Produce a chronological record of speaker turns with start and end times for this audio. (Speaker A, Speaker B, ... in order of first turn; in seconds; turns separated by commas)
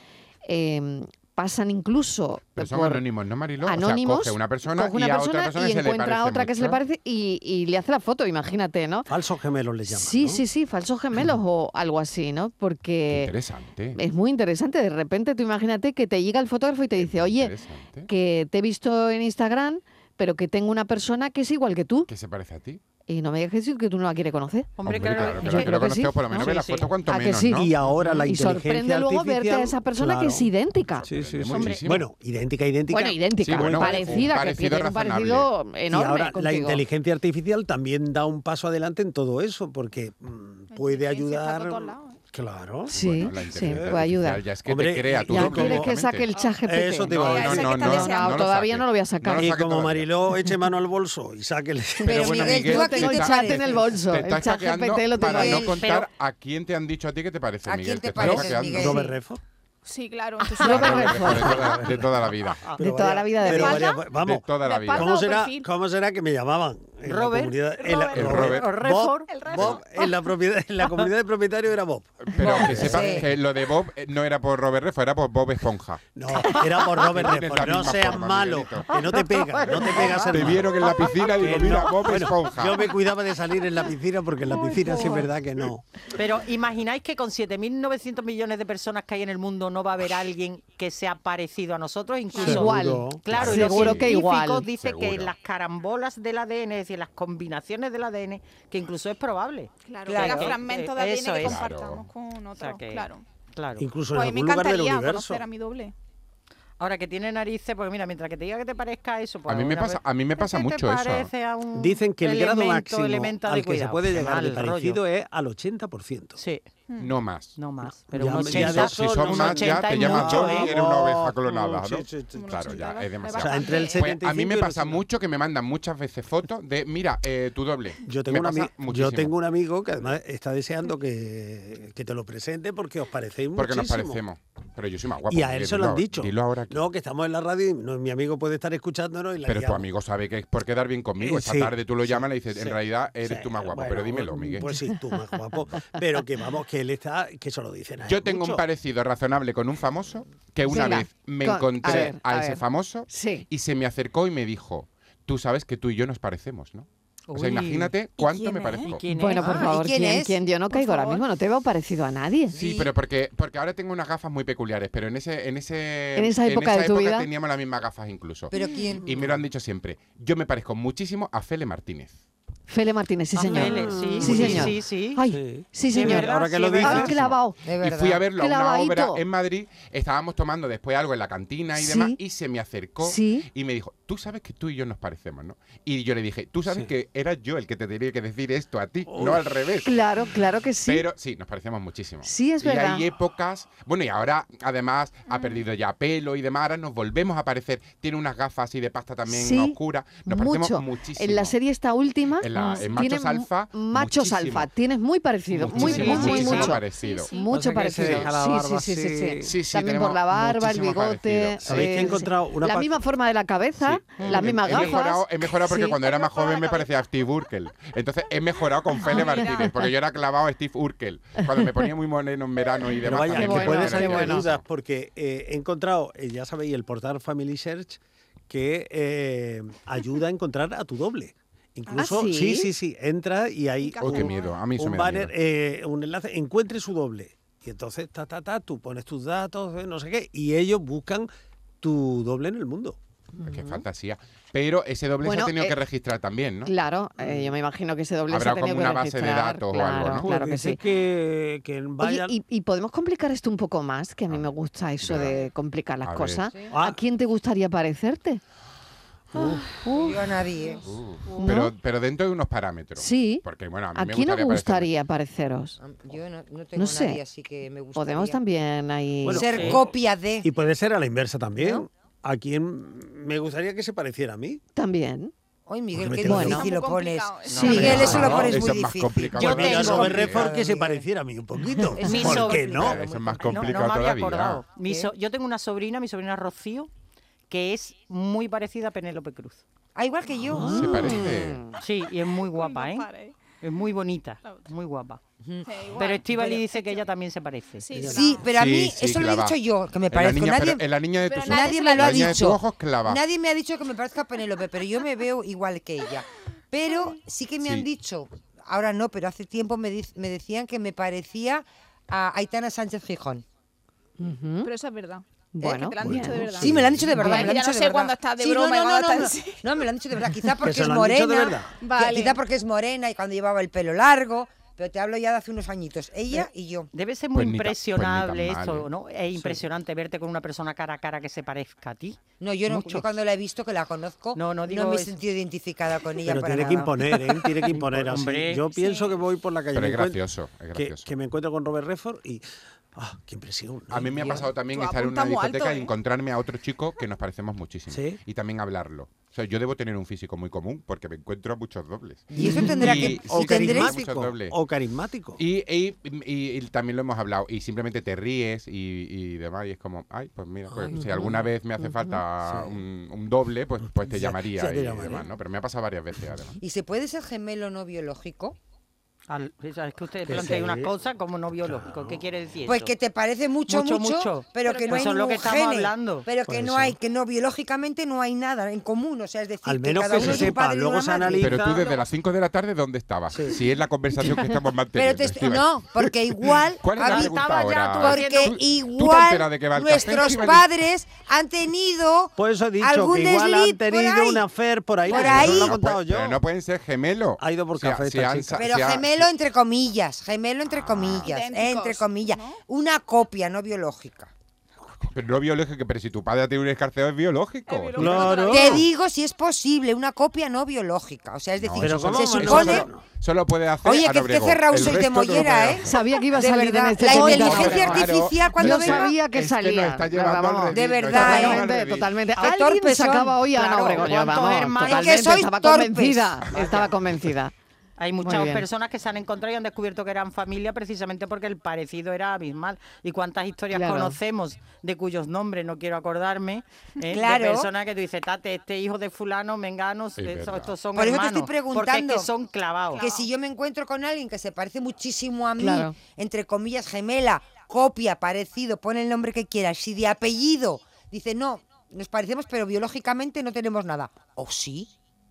Speaker A: 0.4-3.0, Speaker B: 2.6-6.8, Speaker A: 3.6-9.1, Speaker C: 9.1-10.4, Speaker A: 9.9-13.3, Speaker B: 13.1-14.0, Speaker A: 13.9-17.5, Speaker B: 17.0-18.1, Speaker A: 18.1-22.1, Speaker B: 22.1-22.8, Speaker A: 23.1-31.1, Speaker D: 24.8-26.9, Speaker B: 24.8-27.7, Speaker C: 27.5-30.5, Speaker B: 30.9-32.0, Speaker C: 31.0-34.3, Speaker D: 31.4-31.9, Speaker A: 32.9-36.8, Speaker B: 33.4-35.5, Speaker C: 35.9-42.9, Speaker E: 40.7-42.2, Speaker A: 42.9-44.5, Speaker B: 42.9-46.3, Speaker C: 43.4-44.1, Speaker C: 44.6-45.9, Speaker A: 45.2-49.5, Speaker C: 46.6-47.8, Speaker B: 47.1-50.1, Speaker E: 47.2-48.5, Speaker C: 49.2-52.5, Speaker F: 52.0-53.7, Speaker B: 52.1-59.0, Speaker A: 52.2-56.0, Speaker F: 55.2-55.8, Speaker F: 57.6-59.0, Speaker C: 58.2-59.4, Speaker E: 59.9-61.1, Speaker A: 60.6-61.6, Speaker B: 60.6-62.7, Speaker C: 61.2-73.2, Speaker A: 62.8-63.9, Speaker E: 63.4-65.7, Speaker B: 64.2-65.2, Speaker D: 67.0-69.8, Speaker B: 68.1-68.7, Speaker E: 69.3-70.1, Speaker B: 69.5-69.8, Speaker D: 70.8-71.1, Speaker B: 72.2-79.0, Speaker F: 72.4-73.3, Speaker C: 76.1-85.8, Speaker B: 79.7-82.9, Speaker D: 86.2-101.6, Speaker A: 92.4-94.7, Speaker C: 92.4-93.3, Speaker B: 93.3-94.2, Speaker B: 94.8-95.3, Speaker E: 99.8-103.2, Speaker F: 100.2-100.6, Speaker B: 101.4-102.1, Speaker D: 102.5-103.9, Speaker C: 103.8-105.4, Speaker E: 104.1-105.9, Speaker D: 106.8-115.0, Speaker B: 109.5-111.3, Speaker C: 111.7-116.4, Speaker D: 116.4-116.6, Speaker E: 116.9-117.1, Speaker B: 117.0-117.6, Speaker D: 117.6-120.7, Speaker C: 118.1-122.5, Speaker B: 118.4-129.3, Speaker E: 122.3-124.1, Speaker C: 123.3-125.0, Speaker C: 128.0-134.2, Speaker B: 133.6-136.8, Speaker C: 135.3-139.9, Speaker B: 139.4-144.7, Speaker C: 141.2-148.6, Speaker B: 148.0-159.0, Speaker A: 150.6-153.4, Speaker D: 157.3-159.7, Speaker E: 158.6-158.9, Speaker A: 159.1-162.6, Speaker F: 159.4-160.4, Speaker E: 160.7-161.2, Speaker B: 162.5-168.5, Speaker A: 166.2-167.3, Speaker F: 168.5-169.2, Speaker E: 168.6-168.9, Speaker B: 169.0-172.1, Speaker A: 172.7-177.6, Speaker D: 173.3-175.2, Speaker C: 173.5-174.7, Speaker C: 175.2-177.2, Speaker D: 175.9-177.1, Speaker B: 177.0-189.9, Speaker F: 177.7-178.2, Speaker A: 178.4-179.2, Speaker A: 181.7-182.2, Speaker A: 183.0-183.4, Speaker C: 189.1-189.5, Speaker A: 189.8-191.0, Speaker B: 190.8-201.6, Speaker A: 192.2-193.0, Speaker E: 195.3-195.6, Speaker A: 199.3-216.0, Speaker B: 202.4-204.7, Speaker B: 205.5-207.3, Speaker C: 205.7-206.7, Speaker E: 206.2-207.5, Speaker C: 207.5-209.6, Speaker B: 208.0-208.3, Speaker B: 209.4-212.1, Speaker C: 211.6-213.0, Speaker D: 214.2-215.0, Speaker B: 214.2-224.6, Speaker E: 216.0-216.9, Speaker A: 219.0-219.7, Speaker C: 223.0-241.3, Speaker A: 223.2-224.5, Speaker A: 231.9-232.7, Speaker E: 233.8-234.5, Speaker B: 234.0-235.3, Speaker C: 241.8-243.0, Speaker A: 243.4-243.8, Speaker B: 243.4-246.7, Speaker A: 245.2-245.8, Speaker A: 246.6-250.8, Speaker B: 248.3-250.3, Speaker C: 250.1-252.3, Speaker A: 252.0-258.4, Speaker B: 254.3-255.5, Speaker B: 256.0-256.5, Speaker C: 256.7-257.0, Speaker C: 259.3-259.8, Speaker F: 259.8-260.8, Speaker B: 260.8-264.9, Speaker A: 261.4-261.7, Speaker A: 263.0-263.4, Speaker A: 263.9-265.8, Speaker F: 265.8-268.4, Speaker A: 266.8-267.2, Speaker A: 267.9-269.5, Speaker C: 269.2-274.6, Speaker F: 269.3-270.5, Speaker D: 269.4-269.8, Speaker A: 274.7-275.3, Speaker F: 275.7-281.1, Speaker C: 275.9-276.6, Speaker A: 276.2-276.7, Speaker E: 276.4-278.2, Speaker D: 277.5-278.5, Speaker A: 277.6-278.2, Speaker C: 277.7-278.6, Speaker B: 277.9-280.5, Speaker C: 279.4-283.0, Speaker D: 279.4-280.0, Speaker F: 281.9-284.0, Speaker D: 282.0-282.8, Speaker B: 282.7-284.6, Speaker D: 283.4-286.9, Speaker D: 287.5-289.6, Speaker F: 289.9-291.1, Speaker C: 290.5-291.1, Speaker B: 290.7-291.6, Speaker A: 290.8-291.6, Speaker D: 291.8-293.1, Speaker E: 292.3-293.4, Speaker D: 293.6-295.2, Speaker F: 295.4-295.7, Speaker E: 295.6-297.1, Speaker D: 295.9-298.0, Speaker E: 297.8-298.5, Speaker C: 297.9-298.3, Speaker F: 298.0-300.9, Speaker B: 298.5-303.2, Speaker E: 301.2-302.4, Speaker F: 301.4-313.4, Speaker B: 307.6-307.9, Speaker A: 314.2-314.7, Speaker E: 314.6-319.6, Speaker A: 315.5-316.7, Speaker C: 316.0-317.1, Speaker F: 316.6-326.9, Speaker A: 317.2-317.5, Speaker C: 320.6-321.7, Speaker E: 321.8-322.4, Speaker D: 326.3-333.1, Speaker B: 327.3-328.9, Speaker C: 329.4-329.6, Speaker F: 332.4-337.5, Speaker D: 334.3-335.2, Speaker C: 336.2-342.4, Speaker D: 337.7-338.7, Speaker E: 338.7-339.2, Speaker B: 339.7-341.1, Speaker C: 342.9-344.4, Speaker B: 343.9-354.6, Speaker E: 344.6-345.9, Speaker C: 347.9-348.2, Speaker F: 352.3-354.0, Speaker C: 352.4-355.4, Speaker B: 355.4-366.6, Speaker C: 360.7-361.5, Speaker A: 361.8-362.2, Speaker C: 362.4-362.8, Speaker C: 363.8-365.3, Speaker F: 366.6-368.6, Speaker D: 369.3-372.9, Speaker C: 370.2-370.9, Speaker C: 371.6-372.2, Speaker F: 372.6-381.7, Speaker D: 373.7-376.2, Speaker C: 376.5-377.0, Speaker C: 379.6-381.9, Speaker B: 380.2-380.5, Speaker B: 381.4-390.7, Speaker C: 383.3-383.6, Speaker F: 384.9-394.4, Speaker D: 387.0-388.6, Speaker C: 392.4-396.4, Speaker F: 395.1-395.8, Speaker B: 395.1-399.3, Speaker C: 397.4-398.7, Speaker F: 398.6-404.3, Speaker B: 400.7-401.3, Speaker E: 401.2-402.6, Speaker B: 405.1-408.4, Speaker E: 407.7-408.9, Speaker C: 408.0-408.9, Speaker F: 408.5-412.9, Speaker B: 411.6-415.9, Speaker C: 411.8-413.0, Speaker F: 413.8-419.1, Speaker A: 415.8-427.5, Speaker B: 417.0-422.2, Speaker F: 420.7-421.7, Speaker F: 422.4-426.6, Speaker D: 423.6-425.4, Speaker D: 428.0-443.0, Speaker A: 428.2-428.6, Speaker A: 433.7-434.1, Speaker F: 437.1-437.7, Speaker B: 440.2-440.7, Speaker F: 440.9-442.3, Speaker E: 442.9-443.3, Speaker F: 443.0-454.9, Speaker A: 445.6-445.9